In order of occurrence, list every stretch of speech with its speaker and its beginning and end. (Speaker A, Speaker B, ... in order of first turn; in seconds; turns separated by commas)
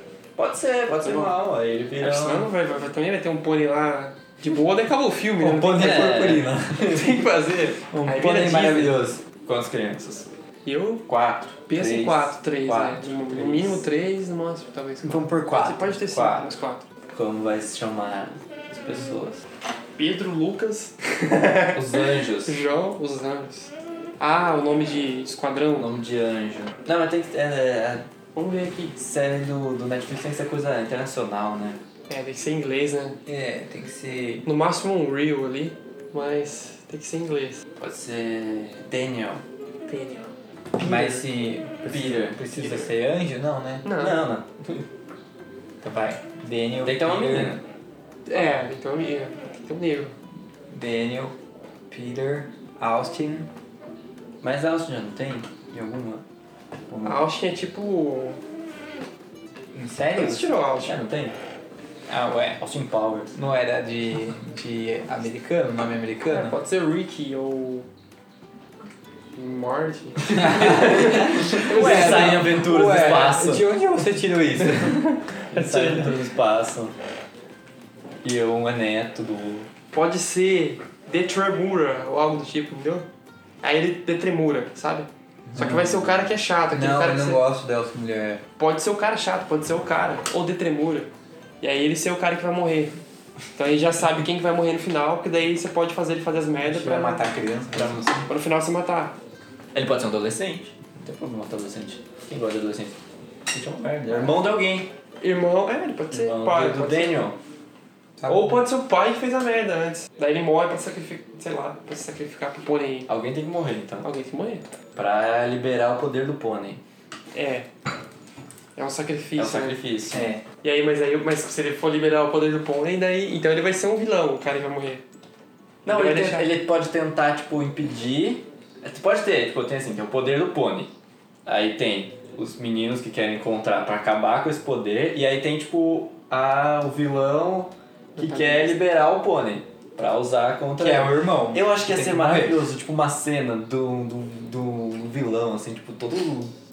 Speaker A: 0.3-2.5, Speaker B: 0.9-1.3, Speaker B: 2.0-6.3, Speaker C: 5.4-6.8, Speaker A: 5.7-7.3, Speaker B: 6.8-8.9, Speaker C: 7.9-9.2, Speaker A: 9.4-10.3, Speaker B: 10.6-11.1, Speaker A: 11.1-13.8, Speaker B: 11.7-16.8, Speaker C: 15.0-16.4, Speaker A: 17.1-19.4, Speaker B: 19.9-25.9, Speaker A: 21.7-22.6, Speaker A: 25.7-28.0, Speaker B: 28.3-28.9, Speaker A: 28.9-31.8, Speaker B: 32.1-33.2, Speaker C: 33.2-34.4, Speaker B: 34.4-37.6, Speaker A: 37.8-39.4, Speaker B: 39.9-40.3, Speaker A: 40.8-41.3, Speaker C: 40.8-43.9, Speaker A: 41.8-42.5, Speaker B: 43.8-44.2, Speaker A: 43.9-44.8, Speaker C: 45.8-47.6, Speaker A: 46.8-47.6, Speaker B: 48.2-50.1, Speaker C: 50.7-51.3, Speaker C: 51.9-53.5, Speaker A: 54.4-56.2, Speaker B: 57.0-58.4, Speaker C: 59.7-60.5, Speaker B: 60.1-61.0, Speaker A: 60.8-61.4, Speaker C: 62.1-62.6, Speaker A: 62.6-63.3, Speaker C: 63.3-66.6, Speaker B: 66.3-67.9, Speaker B: 69.3-72.5, Speaker A: 70.4-73.7, Speaker C: 70.4-75.0, Speaker B: 74.7-76.2, Speaker A: 75.5-76.9, Speaker A: 78.2-79.7, Speaker B: 79.9-83.1, Speaker B: 83.6-87.4, Speaker C: 85.5-85.9, Speaker A: 85.6-86.0, Speaker C: 86.7-88.4, Speaker B: 88.6-91.1, Speaker B: 91.6-92.9, Speaker B: 93.5-97.3, Speaker C: 96.6-98.0, Speaker A: 97.7-98.3, Speaker B: 98.3-99.1, Speaker A: 99.7-103.0, Speaker A: 103.5-104.9, Speaker B: 105.2-107.2, Speaker A: 106.1-107.4, Speaker C: 108.2-108.6, Speaker B: 108.3-113.1, Speaker A: 113.1-114.1, Speaker B: 114.0-114.6, Speaker A: 114.9-116.8, Speaker B: 117.3-117.7, Speaker B: 118.8-119.8, Speaker A: 119.4-120.3, Speaker C: 120.1-120.4, Speaker B: 120.6-125.0, Speaker A: 125.8-130.9, Speaker B: 125.8-126.5, Speaker A: 131.4-146.5, Speaker B: 138.2-138.8, Speaker C: 140.8-142.7